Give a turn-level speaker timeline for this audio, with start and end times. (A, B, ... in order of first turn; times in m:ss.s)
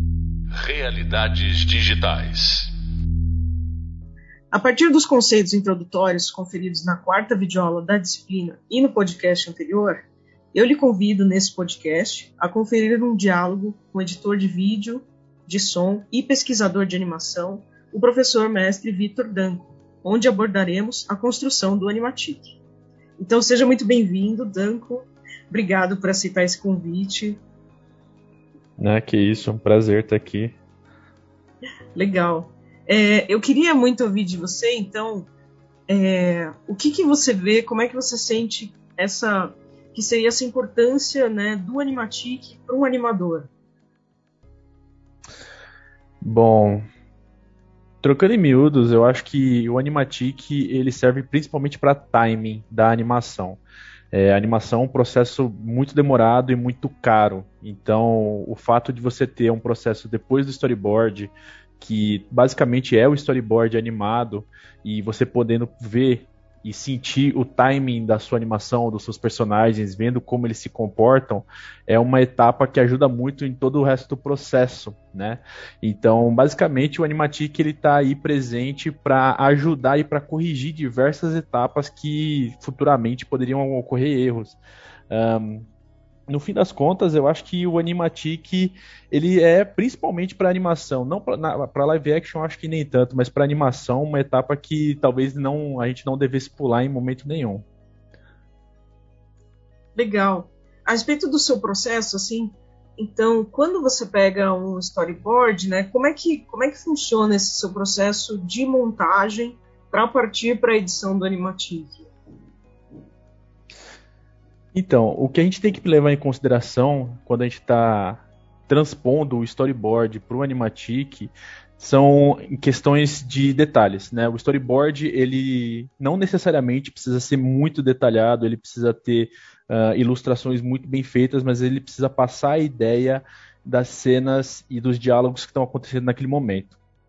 0:00.6-0:02.7 A
0:04.5-0:22.6 B
0:23.2-0:27.4 B
0:28.8-0:30.6 A
0:32.0-0:35.3 B
0:35.9-0:43.5 B
0:46.2-0:46.8 A
0:48.0-0:53.6 A
0:54.1-1:24.6 A
1:25.1-1:25.7 A
1:26.3-1:37.6 A
1:40.0-1:52.1 B
1:54.7-2:16.8 A